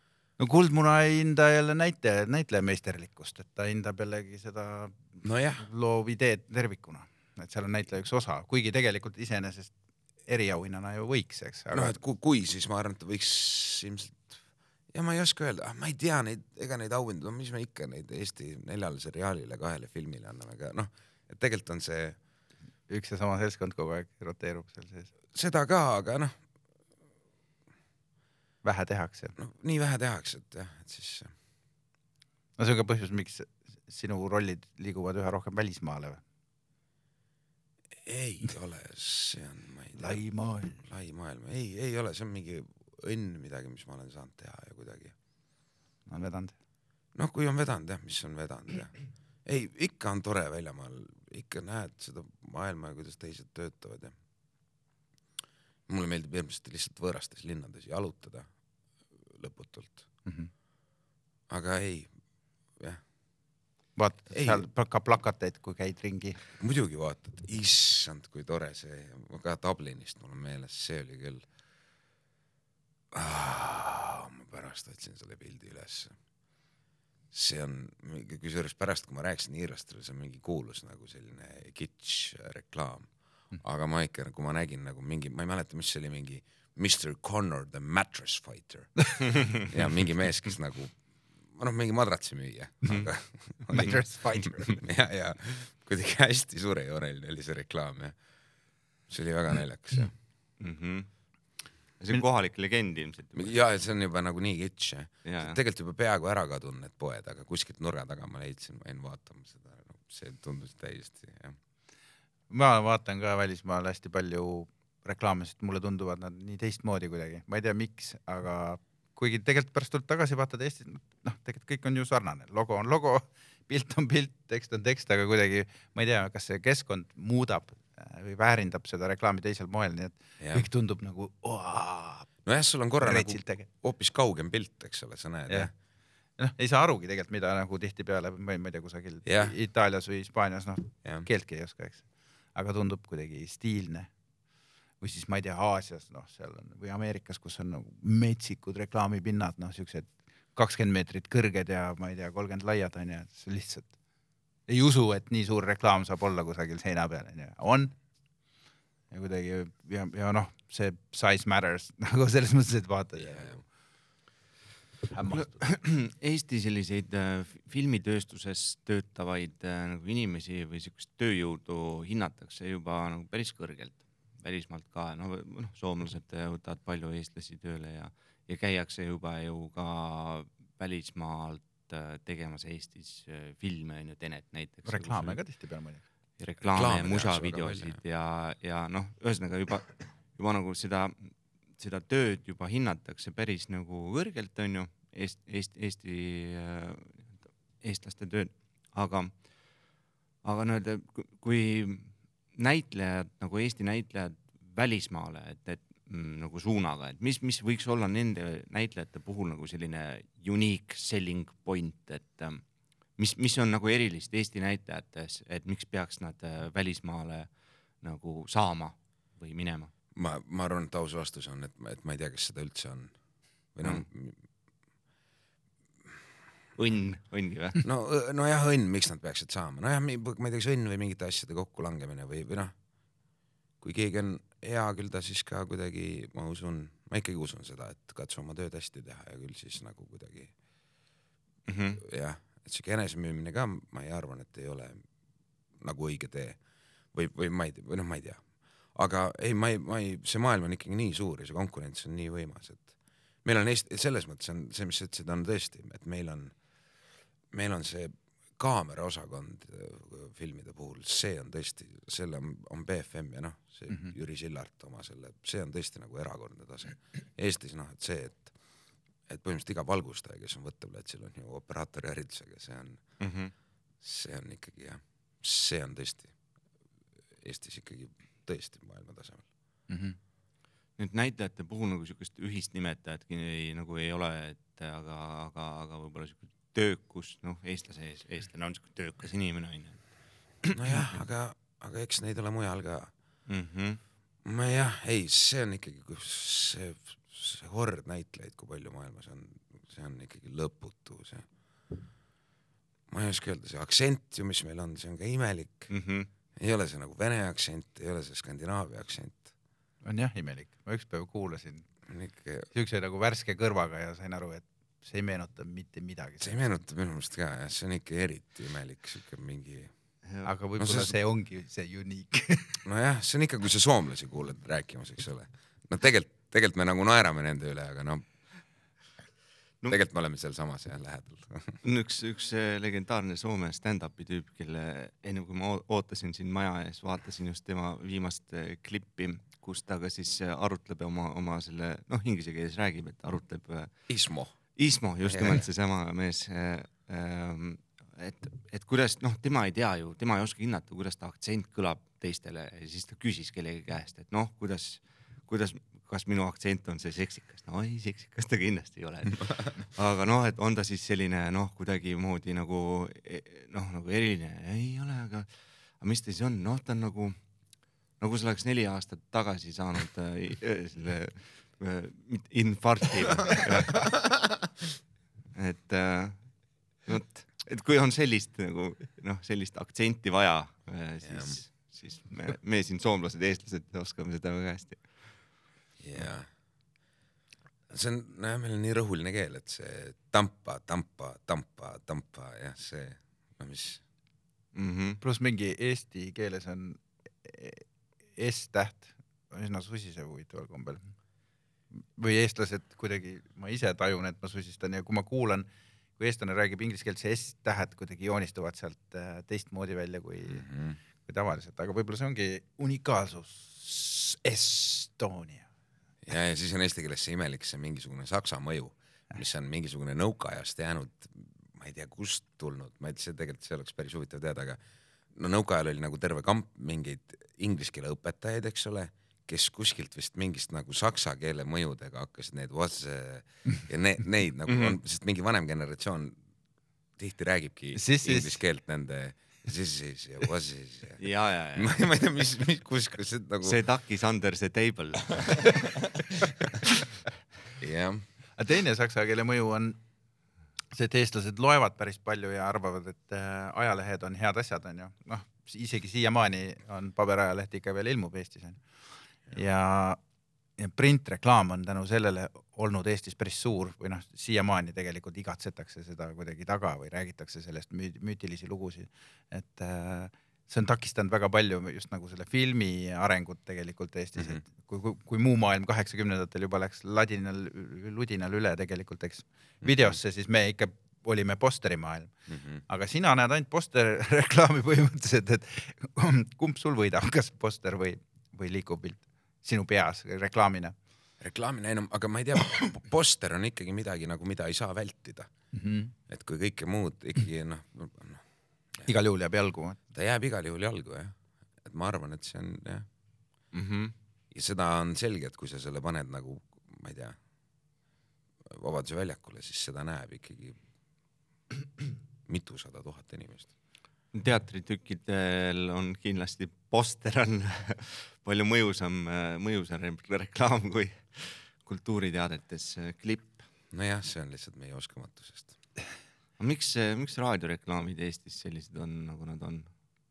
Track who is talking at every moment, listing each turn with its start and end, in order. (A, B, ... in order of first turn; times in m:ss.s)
0:00.4-0:09.7 A
0:05.2-0:05.7 B
0:10.2-0:12.0 A
0:11.7-0:14.4 B
0:14.9-0:22.2 B
0:22.9-0:25.1 A
0:25.3-0:26.3 B
0:28.6-0:29.3 A
0:29.4-0:31.3 B
0:32.6-0:36.2 A
0:38.0-0:40.2 B
0:40.0-0:40.8 A
0:40.8-0:45.1 B
0:46.1-0:46.5 A
0:47.1-0:54.1 B
0:55.9-0:58.5 B
0:59.2-1:00.1 B
1:00.2-1:00.5 A
1:01.5-1:02.1 B
1:02.8-1:03.0 B
1:04.0-1:06.4 A
1:04.3-1:04.7 B
1:06.6-1:11.5 B
1:13.1-1:16.2 B
1:17.3-1:23.1 B
1:23.6-1:38.2 B
1:33.7-1:34.8 A
1:39.1-1:40.1 B
1:40.6-1:41.1 C
1:42.0-1:43.5 C
1:43.4-1:51.6 B
1:45.2-1:45.6 C
1:52.5-2:12.3 A
2:10.4-2:10.6 B
2:12.4-2:15.7 B
2:13.0-2:13.7 A
2:16.4-2:24.1 A
2:19.2-2:19.5 B
2:25.0-2:33.9 A
2:34.7-2:38.0 A
2:39.1-2:43.6 A
2:43.2-2:43.6 B
2:45.1-2:45.6 A
2:45.3-3:05.4 C
3:04.9-3:06.0 A
3:06.4-3:19.4 C
3:06.6-3:08.0 B
3:20.4-3:32.6 C
3:33.2-3:39.9 C
3:40.1-3:43.1 B
3:43.7-3:44.4 B
3:46.8-3:47.8 C
3:47.8-3:52.7 B
3:53.8-4:00.5 B
4:01.7-4:02.0 C
4:02.0-4:05.0 B
4:05.8-4:06.6 B
4:07.1-4:08.4 B
4:08.9-4:12.9 B
4:13.4-4:16.5 B
4:17.5-4:28.5 B
4:29.3-4:33.0 B
4:33.2-4:33.5 C
4:34.0-4:36.3 B
4:37.4-4:39.5 B
4:39.9-4:40.2 A
4:41.0-4:50.0 C
4:50.7-4:53.1 B
4:53.5-4:54.0 C
4:54.4-5:01.4 B
5:03.1-5:05.9 B
5:05.9-5:06.3 C
5:06.6-5:09.4 B
5:10.0-5:11.9 A
5:12.1-5:12.7 B
5:12.7-5:16.7 A
5:16.4-5:19.9 B
5:20.2-5:20.5 C
5:20.4-5:22.8 A
5:20.8-5:21.2 B
5:22.8-5:28.3 B
5:29.9-5:31.8 B
5:31.8-6:07.4 C
5:44.1-5:44.6 B
5:45.2-5:45.6 B
6:08.2-6:14.3 C
6:15.5-6:25.4 C
6:21.2-6:21.6 B
6:26.0-6:26.5 B
6:27.9-6:34.0 B
6:34.7-6:35.2 C
6:35.2-6:41.1 A
6:42.0-6:55.7 A
6:50.5-6:51.0 B
6:56.2-7:04.8 B
7:05.3-7:16.4 B
7:14.7-7:15.0 C
7:17.2-7:23.8 B
7:17.9-7:18.6 A
7:21.2-7:22.0 C
7:23.6-7:25.9 C
7:27.8-7:28.2 B
7:28.6-7:30.0 A
7:30.9-7:40.2 A
7:40.8-8:02.3 A
7:59.8-8:00.1 B
8:02.5-8:02.8 B
8:02.8-8:10.9 A
8:11.4-8:15.5 B
8:15.7-8:16.1 A
8:16.3-8:18.4 B
8:19.0-8:20.0 A
8:20.1-8:23.1 B
8:23.7-8:24.1 C
8:24.5-8:27.4 B
8:28.6-8:30.8 B
8:32.4-8:33.7 B
8:34.3-8:43.6 C
8:43.9-8:45.8 B
8:46.6-8:50.0 C